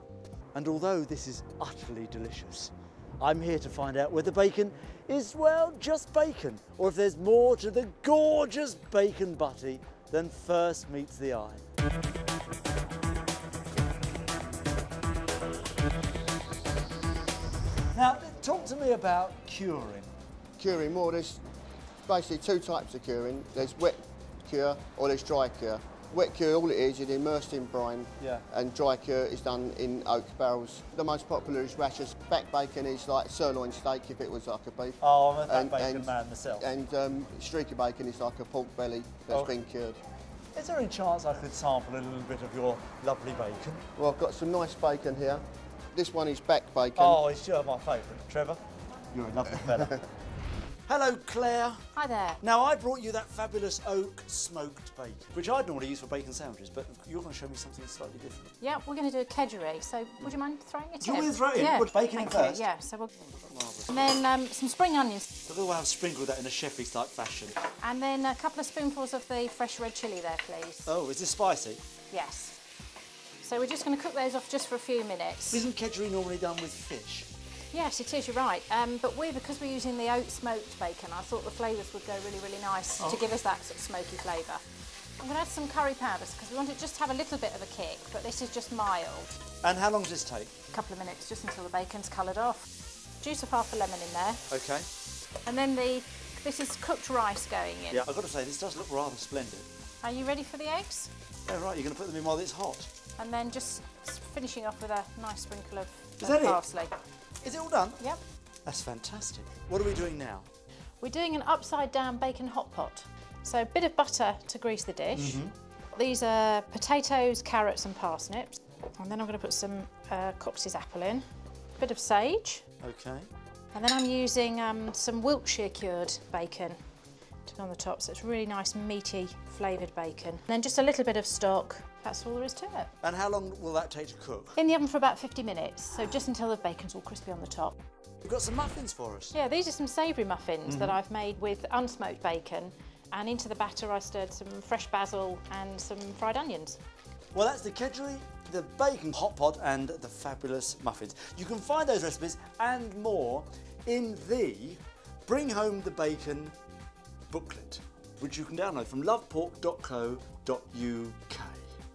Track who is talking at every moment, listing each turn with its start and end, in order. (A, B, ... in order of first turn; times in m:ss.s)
0:00.5-0:11.6 A
0:17.9-0:20.1 A
0:20.6-0:21.4 B
0:22.0-0:40.0 B
0:28.2-0:28.4 A
0:35.0-0:36.7 A
0:40.6-0:43.8 A
0:44.0-0:45.4 B
0:45.9-0:47.2 B
0:47.0-0:48.6 A
0:49.1-0:50.0 A
0:50.9-0:51.8 A
0:52.0-0:52.4 C
0:52.4-0:58.5 A
0:58.6-1:03.1 C
1:01.0-1:02.6 A
1:03.3-1:03.9 A
1:03.9-1:05.3 C
1:05.5-1:07.6 A
1:07.8-1:10.9 C
1:10.9-1:11.8 A
1:12.1-1:12.6 C
1:13.4-1:15.6 C
1:15.5-1:17.3 A
1:17.7-1:24.6 C
1:23.0-1:23.3 A
1:25.2-1:29.4 C
1:29.6-1:30.5 A
1:30.7-1:32.7 C
1:33.2-1:34.4 C
1:34.5-1:34.9 A
1:35.4-1:38.0 C
1:37.9-1:39.7 A
1:40.0-1:41.1 C
1:41.5-1:42.9 A
1:43.2-1:47.0 C
1:46.2-1:46.6 A
1:47.4-1:48.1 A
1:48.7-1:50.5 A
1:51.0-1:55.4 C
1:55.1-1:55.5 A
1:55.9-2:01.2 C
2:01.8-2:02.6 C
2:02.8-2:03.3 A
2:03.7-2:06.8 C
2:07.5-2:12.9 C
2:13.0-2:14.6 A
2:14.6-2:17.8 C
2:18.2-2:19.4 A
2:19.3-2:26.8 C
2:20.7-2:21.0 A
2:27.3-2:36.6 A
2:37.3-2:41.7 A